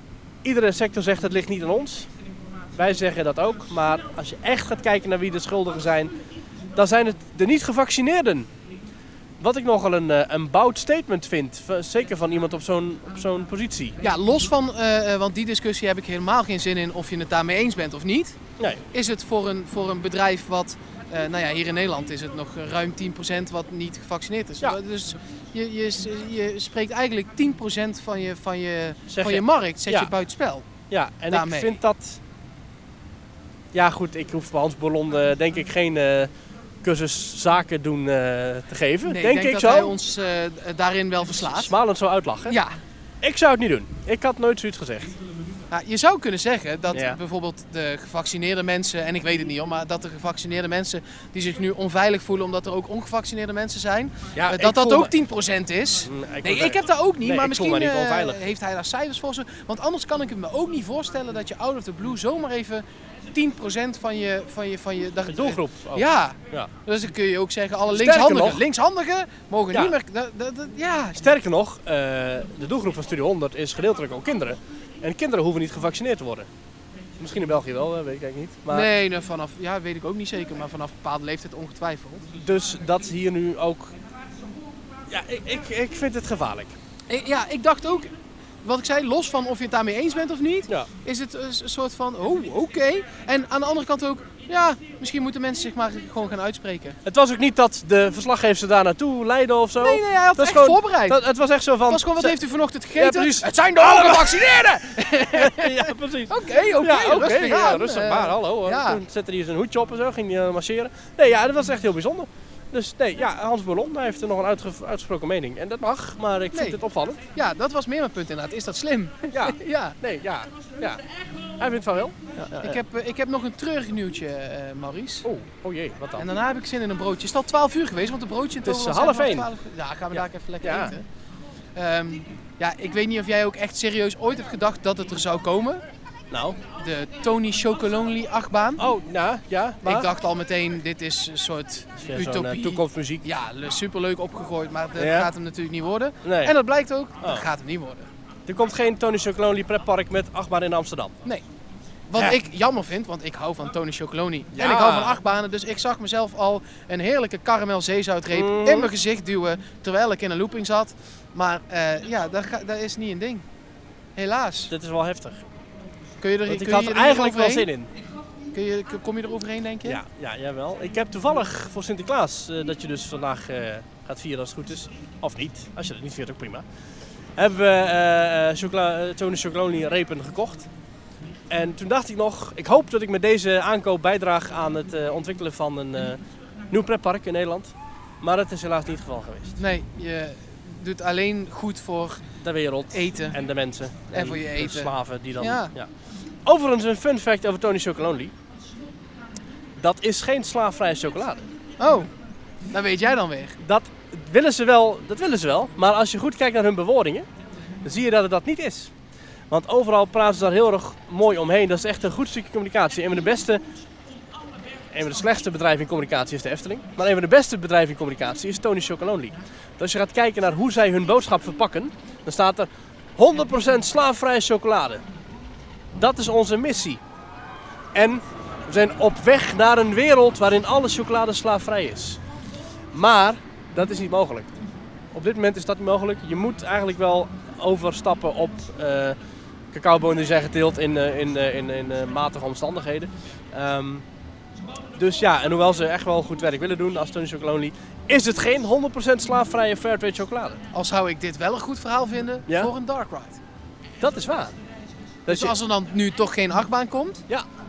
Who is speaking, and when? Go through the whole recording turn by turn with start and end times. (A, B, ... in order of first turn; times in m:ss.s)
0:00.4-0:02.1 A
0:02.8-0:06.1 A
0:06.7-0:08.5 A
0:09.4-0:14.0 A
0:14.0-0:18.4 B
0:18.9-0:30.7 B
0:29.1-0:30.1 A
0:30.9-0:32.2 A
0:31.3-0:31.8 B
0:33.7-0:36.3 A
0:36.8-0:40.0 A
0:39.1-0:41.7 B
0:41.4-0:42.6 A
0:42.5-0:42.8 B
0:43.2-0:45.1 A
0:45.7-1:11.2 B
0:46.9-0:47.2 A
0:54.4-0:55.1 A
0:56.1-0:58.4 A
1:05.3-1:06.7 A
1:07.9-1:08.6 A
1:11.2-1:16.5 A
1:17.2-1:18.9 A
1:18.7-1:22.3 B
1:22.4-1:24.0 A
1:25.1-1:26.8 A
1:27.1-1:37.0 B
1:37.0-1:42.4 A
1:39.8-1:41.2 B
1:41.9-1:49.0 B
1:43.0-1:57.2 A
1:56.5-1:56.8 B
1:57.4-2:00.0 B
1:59.3-2:01.0 A
2:01.6-2:02.8 A
2:02.6-2:05.3 B
2:05.2-2:06.3 A
2:06.2-2:11.0 B
2:08.6-2:09.5 A
2:10.1-2:10.9 A
2:11.8-2:15.8 B
2:16.3-2:16.6 A
2:16.8-2:18.9 B
2:18.8-2:20.1 A
2:19.8-2:28.1 B
2:22.0-2:23.3 A
2:25.0-2:25.3 A
2:26.2-2:26.6 A
2:27.2-2:27.5 A
2:28.5-2:31.2 A
2:32.1-2:43.4 B
2:34.5-2:35.2 A
2:38.3-2:38.9 A
2:44.2-2:44.7 B
2:44.7-2:45.4 A
2:46.2-2:47.7 B
2:46.5-2:47.9 A
2:48.5-2:50.0 B
2:49.8-2:56.6 A
2:57.4-3:00.7 A
3:01.5-3:09.6 A
3:09.6-3:12.2 B
3:12.4-3:15.9 A
3:12.9-3:13.4 B
3:14.1-3:15.7 B
3:16.4-3:18.3 A
3:19.8-3:21.5 A
3:21.8-3:22.1 B
3:22.7-3:23.6 B
3:23.6-3:27.3 A
3:27.8-3:28.9 A
3:29.5-3:33.6 A
3:34.9-3:45.0 A
3:46.0-3:47.0 A
3:47.9-3:52.2 A
3:52.9-3:54.6 A
3:55.1-3:59.2 A
3:59.7-4:04.0 A
4:05.0-4:10.6 A
4:10.7-4:13.4 B
4:12.5-4:12.7 A
4:14.0-4:14.6 A
4:15.3-4:15.6 A
4:15.3-4:17.3 B